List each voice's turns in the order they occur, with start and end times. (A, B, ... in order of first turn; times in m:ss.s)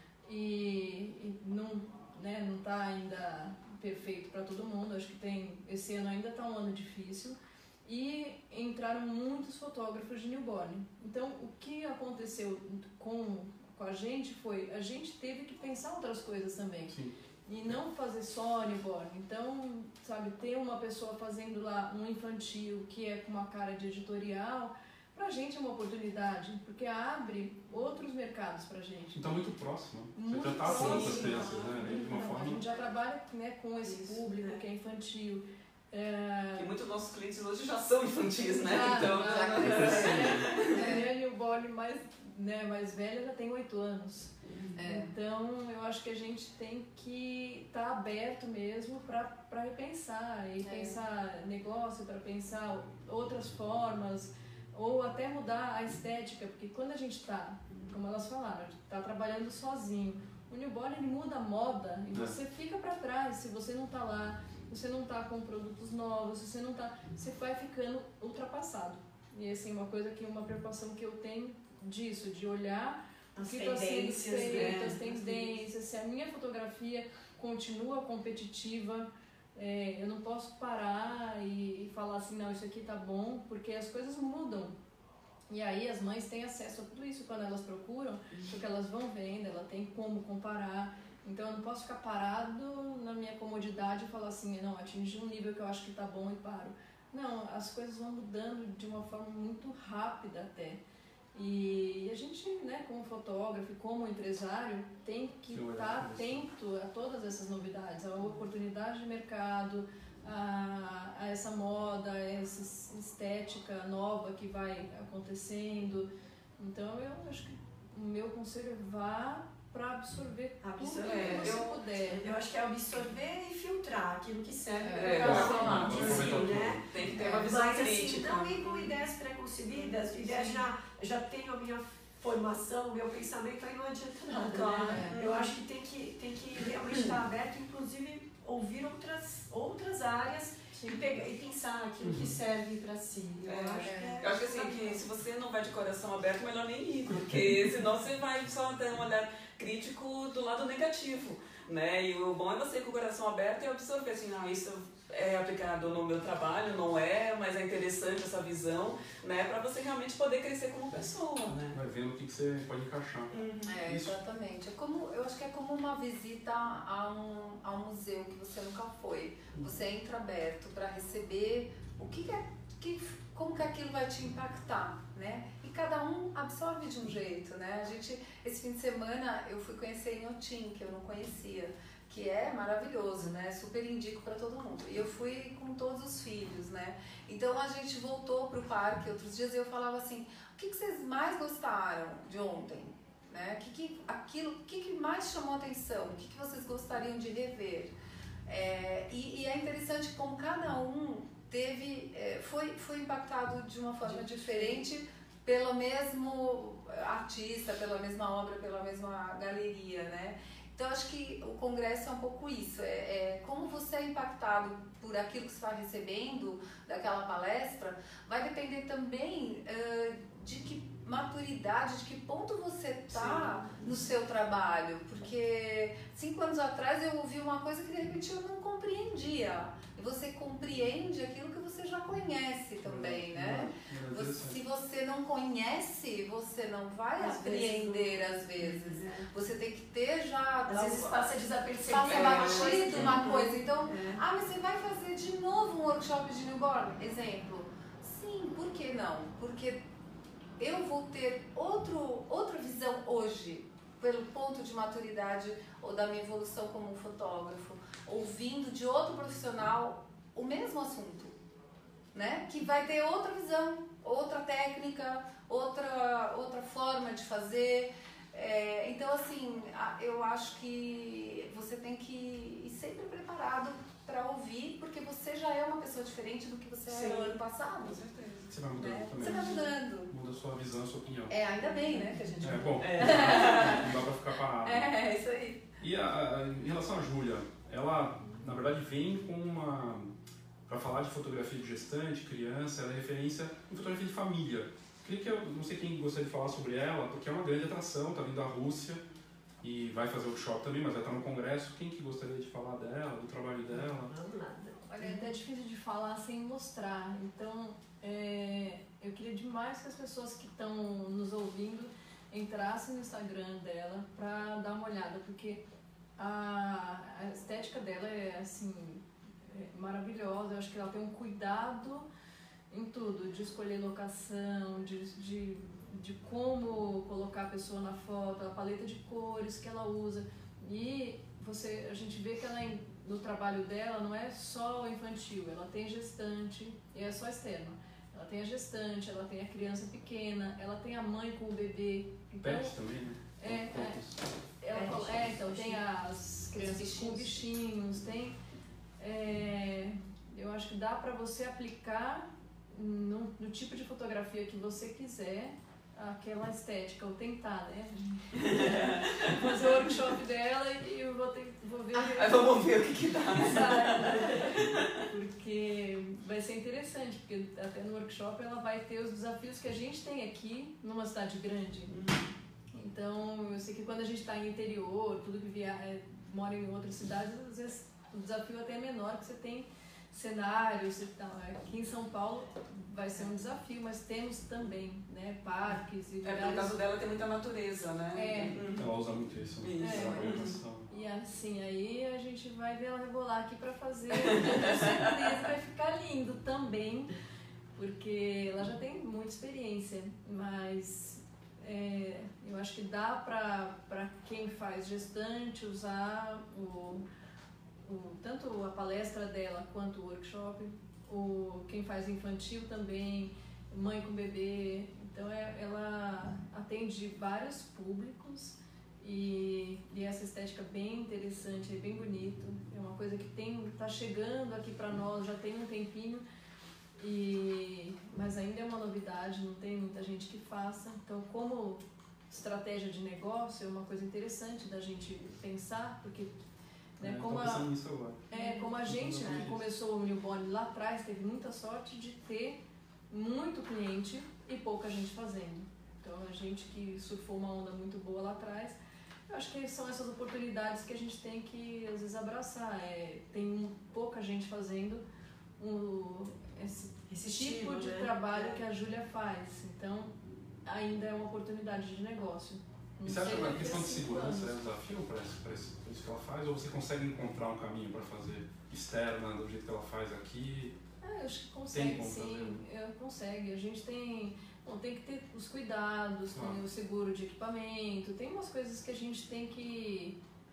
0:00.2-0:16.9 A
0:16.9-0:17.1 B
0:17.4-0:29.4 A
0:29.1-0:32.6 B
0:30.1-0:36.7 A
0:30.9-0:31.4 C
0:33.9-0:34.6 D
0:36.6-0:40.9 C
0:38.6-1:24.8 A
0:39.0-0:41.1 E
0:39.6-0:40.4 B
0:44.7-0:45.1 E
0:50.6-0:51.0 E
1:13.4-1:15.0 D
1:14.5-1:15.1 C
1:25.5-1:40.8 A
1:41.3-2:02.2 A
1:45.5-1:46.4 B
2:00.6-2:25.0 D
2:01.0-2:01.7 C
2:04.8-2:06.3 E
2:04.9-2:08.9 C
2:05.2-2:06.9 B
2:14.5-2:15.5 C
2:14.9-2:15.2 E
2:20.7-2:21.0 A
2:22.0-2:22.3 B
2:23.4-2:41.8 C
2:23.8-2:24.2 E
2:41.7-2:44.2 B
2:43.3-2:43.8 C
2:43.6-3:17.9 E
3:18.4-4:09.8 E
3:24.0-3:24.8 D
3:43.1-3:43.7 C
3:52.8-3:54.6 B
3:57.2-3:59.2 D
4:00.6-4:04.2 D
4:02.0-4:03.3 C
4:10.6-4:21.3 E
4:22.1-4:38.0 E
4:36.9-4:38.6 C
4:38.5-4:41.4 B
4:38.7-4:40.1 E
4:39.2-4:39.5 C
4:41.3-4:44.0 E
4:42.4-4:44.9 B
4:42.8-4:43.8 C
4:44.6-4:45.6 E
4:45.8-4:50.1 B
4:50.6-4:59.0 B
4:59.6-5:04.1 B
5:03.7-5:04.8 D
5:04.9-5:05.2 E
5:04.9-5:15.6 A
5:16.2-5:22.1 A
5:22.7-5:42.8 A
5:42.4-5:44.3 B
5:43.4-5:44.0 A
5:44.6-5:48.4 A
5:44.7-5:45.7 E
5:44.7-5:45.7 D
5:46.5-5:47.5 E
5:49.0-6:02.6 A
5:58.4-5:59.6 C
6:01.9-6:05.0 C
6:03.3-6:12.0 A
6:11.9-6:12.3 C
6:12.7-6:26.7 A
6:26.2-6:28.9 C
6:28.1-6:28.6 A
6:28.8-6:30.9 B
6:29.6-6:30.6 C
6:29.8-6:30.3 A
6:30.9-6:37.1 A
6:34.2-6:35.0 C
6:37.8-6:47.0 A
6:47.8-7:06.2 A
7:07.0-7:16.3 A
7:17.0-7:17.7 A
7:17.0-7:18.3 B
7:18.3-7:28.8 A
7:18.8-7:19.6 B
7:29.3-7:35.0 A
7:35.6-7:40.1 A
7:37.1-7:38.6 D
7:40.6-7:44.6 A
7:43.0-7:50.8 B
7:51.0-8:00.2 A
7:51.7-7:52.6 B
7:56.3-7:56.6 B